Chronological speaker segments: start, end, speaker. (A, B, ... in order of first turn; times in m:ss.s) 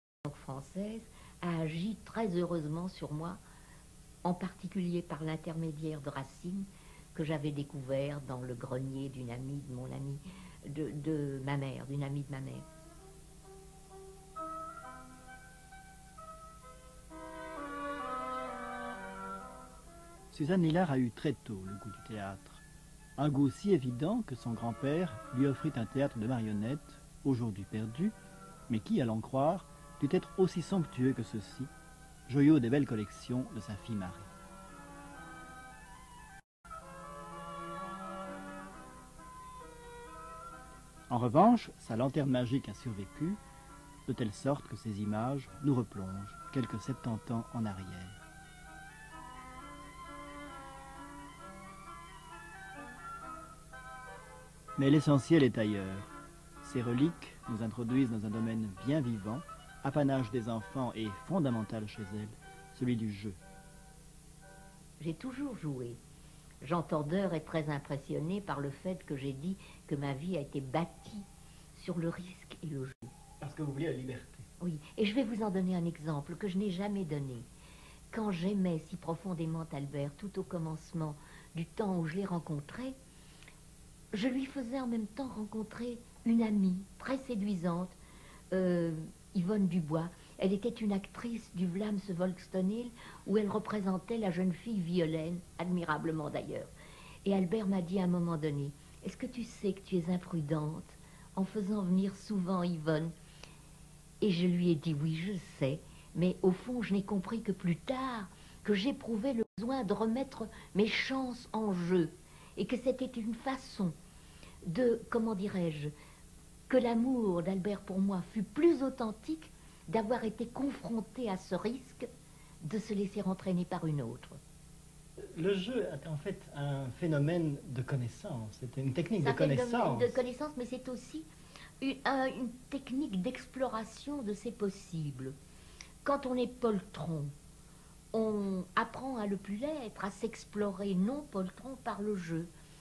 0:00.2-0:03.4 A
0:04.2-0:12.6 A
0:20.3-0:22.6 B
0:23.2-0:28.1 B
0:28.7-0:31.7 B
0:32.3-0:34.3 B
0:41.1-0:43.4 B
0:44.1-0:48.2 B
0:54.8-0:56.1 B
0:56.6-1:03.4 B
1:05.0-1:06.0 A
1:06.6-1:11.2 A
1:11.8-1:13.1 A
1:13.4-1:14.4 B
1:14.6-1:17.4 A
1:18.1-1:22.9 A
1:24.1-1:27.9 A
1:28.5-1:36.7 A
1:37.2-1:43.1 A
1:44.2-1:53.9 A
1:54.6-1:55.9 A
1:56.7-2:02.0 A
2:02.6-2:04.4 A
2:05.3-2:10.2 B
2:09.2-2:11.2 A
2:11.8-2:15.3 A
2:16.0-2:17.3 A
2:18.1-2:22.5 A